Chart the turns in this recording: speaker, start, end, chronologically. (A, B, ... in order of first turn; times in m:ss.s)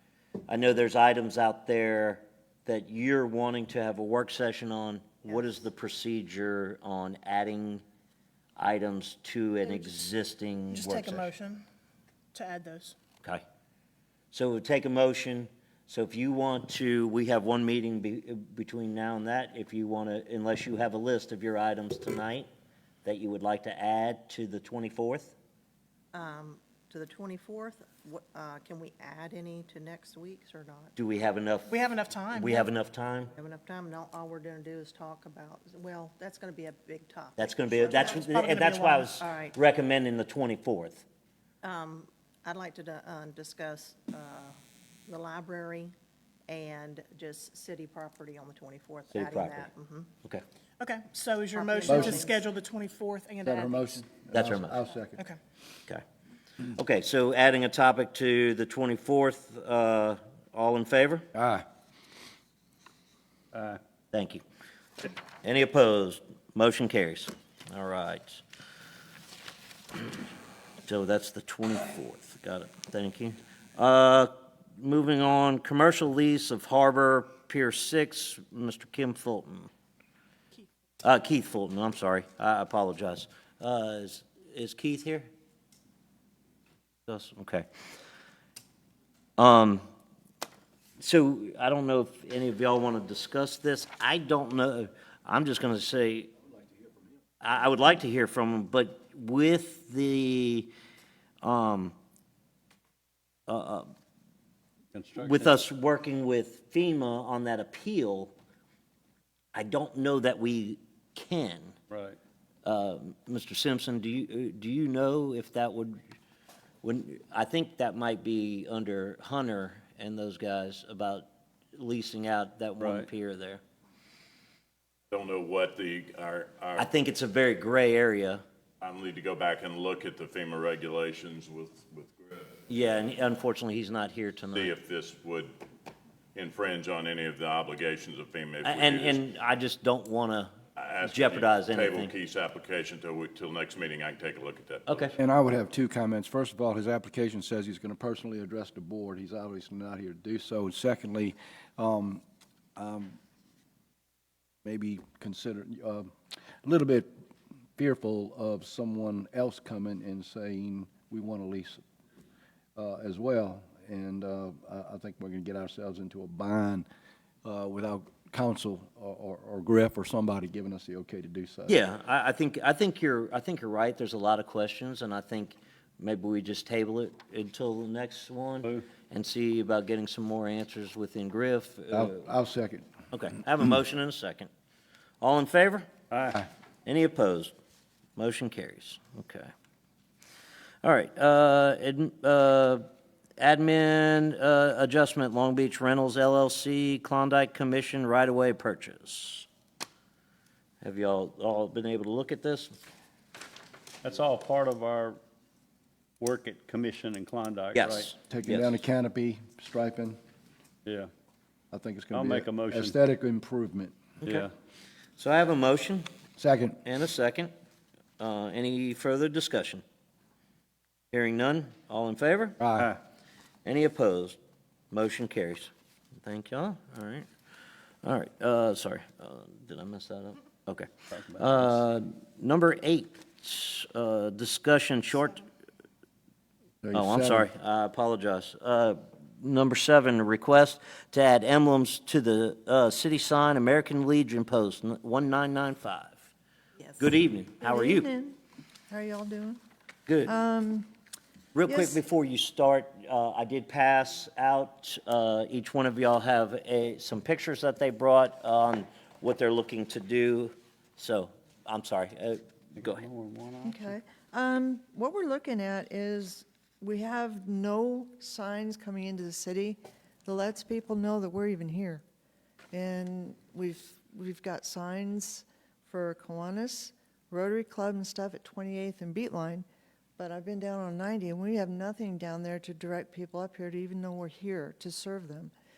0:00.5-0:07.8 A
0:08.6-0:11.3 A
0:10.7-0:11.6 B
0:12.3-0:13.0 B
0:14.3-0:22.5 A
0:23.0-0:25.3 A
0:26.1-0:30.9 C
0:31.0-0:31.8 A
0:31.7-0:32.7 B
0:32.3-0:33.3 A
0:33.4-0:38.4 C
0:37.4-0:41.0 A
0:38.2-0:39.1 B
0:39.2-0:39.5 C
0:41.6-0:44.5 C
0:45.1-0:45.9 C
0:46.5-0:50.1 C
0:49.1-0:49.7 A
0:50.8-0:53.9 B
0:51.5-0:52.4 C
0:51.8-0:52.2 D
0:53.4-0:55.2 D
0:54.3-0:54.8 A
0:56.7-1:01.3 A
1:01.3-1:01.6 D
1:04.1-1:04.4 A
1:05.4-1:08.4 A
1:10.9-1:19.7 A
1:21.0-1:25.3 A
1:27.1-1:27.7 A
1:29.4-1:29.8 A
1:31.0-1:36.3 A
1:37.4-1:40.7 A
1:41.4-1:41.9 A
1:43.5-1:43.9 A
1:44.9-1:45.5 E
1:45.2-1:48.3 A
1:49.5-1:51.8 A
1:51.9-1:52.2 E
1:52.6-1:56.0 A
1:56.8-2:03.6 A
2:02.8-2:03.1 E
2:05.1-2:06.9 F
2:06.8-2:08.4 A
2:08.8-2:12.5 F
2:12.7-2:14.7 A
2:14.5-2:15.5 F
2:16.3-2:19.2 F
2:18.6-2:20.5 A
2:20.8-2:25.2 F
2:21.0-2:22.1 A
2:24.9-2:25.2 A
2:25.2-2:32.2 D
2:32.8-2:33.2 D
2:34.6-2:36.1 D
2:36.6-2:37.1 D
2:37.8-2:41.8 D
2:42.8-2:46.8 D
2:47.4-2:51.8 D
2:51.7-3:02.3 A
3:01.9-3:02.9 D
3:03.1-3:04.5 A
3:05.2-3:05.9 A
3:06.1-3:06.4 E
3:06.8-3:07.5 A
3:08.2-3:09.5 A
3:10.8-3:12.8 A
3:13.4-3:19.5 A
3:20.8-3:22.7 A
3:24.0-3:25.2 E
3:26.2-3:28.1 E
3:27.7-3:28.8 A
3:28.3-3:30.2 D
3:30.8-3:31.1 E
3:31.7-3:34.0 D
3:32.1-3:32.9 E
3:34.2-3:34.5 A
3:34.2-3:34.5 E
3:35.2-3:36.1 A
3:36.4-3:36.8 D
3:36.8-3:37.5 A
3:38.2-3:39.8 A
3:41.1-3:42.6 A
3:42.6-3:43.0 D
3:43.6-3:44.4 A
3:44.9-3:45.7 A
3:46.2-3:47.3 A
3:48.0-3:55.4 A
3:56.8-3:57.5 D
3:56.9-4:06.3 A
4:07.0-4:08.1 A
4:07.6-4:08.4 G
4:08.9-4:09.6 G
4:10.1-4:10.3 A
4:10.2-4:10.9 G
4:11.5-4:23.0 A
4:11.6-4:12.0 G
4:22.8-4:23.9 E
4:23.6-4:32.0 G
4:32.7-4:39.6 G
4:40.2-4:45.5 G